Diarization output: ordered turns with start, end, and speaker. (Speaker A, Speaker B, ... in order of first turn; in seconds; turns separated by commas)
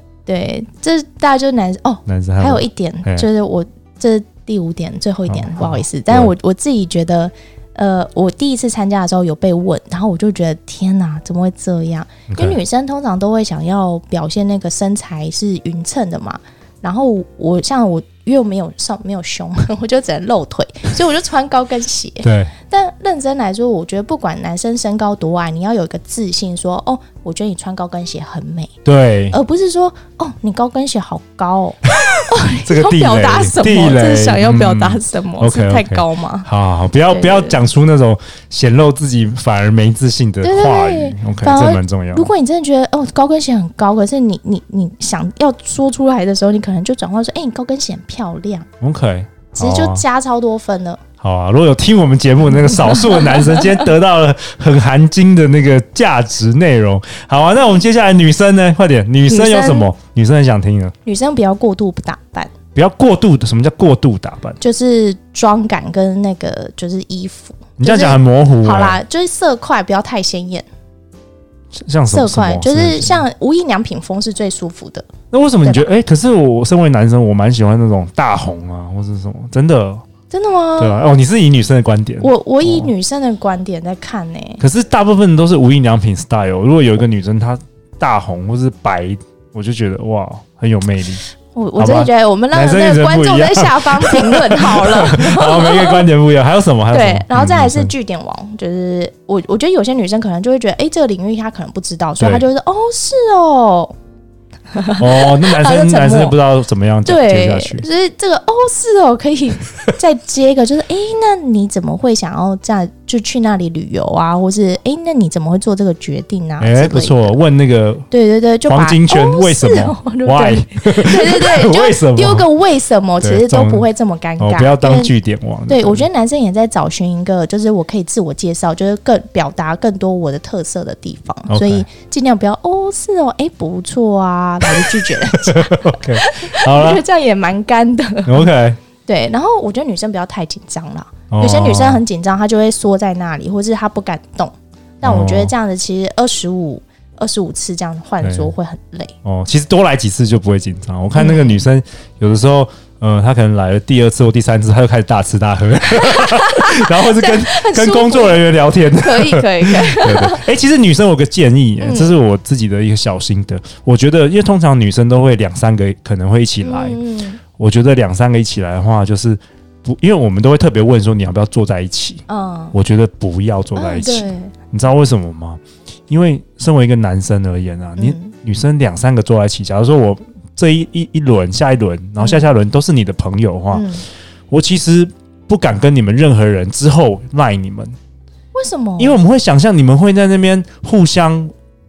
Speaker A: 0.2-28.8, Speaker B: 2.0-3.3, Speaker B: 5.3-6.3, Speaker B: 12.3-12.6, Speaker B: 22.2-22.5, Speaker B: 28.8-29.4, Speaker A: 29.3-36.5, Speaker B: 32.6-42.3, Speaker A: 37.1-37.6, Speaker A: 40.4-48.7, Speaker B: 48.8-50.0, Speaker A: 49.5-51.0, Speaker B: 51.2-60.9, Speaker A: 59.2-59.9, Speaker A: 61.0-62.5, Speaker B: 62.7-64.6, Speaker A: 64.6-70.7, Speaker B: 67.8-69.0, Speaker B: 71.7-73.2, Speaker A: 72.1-75.1, Speaker B: 75.3-80.0, Speaker A: 75.6-75.9, Speaker A: 80.3-81.1, Speaker B: 80.8-82.9, Speaker A: 82.2-84.6, Speaker B: 84.6-91.2, Speaker A: 91.5-96.1, Speaker B: 91.8-97.9, Speaker A: 96.9-103.9, Speaker B: 102.2-102.5, Speaker A: 104.7-106.4, Speaker B: 105.0-107.9, Speaker A: 107.0-117.4, Speaker B: 116.6-118.0, Speaker A: 118.1-125.1, Speaker B: 118.7-122.5, Speaker B: 123.2-123.8, Speaker B: 124.4-126.1, Speaker A: 125.7-138.5, Speaker B: 131.5-131.8, Speaker B: 134.6-137.0, Speaker B: 138.2-138.8, Speaker A: 139.0-149.1, Speaker B: 141.3-142.0, Speaker B: 145.0-145.5, Speaker B: 148.2-148.5, Speaker B: 149.2-167.0, Speaker A: 151.1-151.6, Speaker A: 155.9-158.5, Speaker A: 159.0-160.4, Speaker A: 161.8-162.2, Speaker A: 166.6-167.4, Speaker B: 167.6-183.9, Speaker A: 172.3-172.8, Speaker A: 173.7-174.5, Speaker A: 178.0-178.3, Speaker A: 182.2-182.4, Speaker A: 183.7-184.0, Speaker B: 184.5-187.9, Speaker A: 188.5-189.2, Speaker B: 189.0-191.5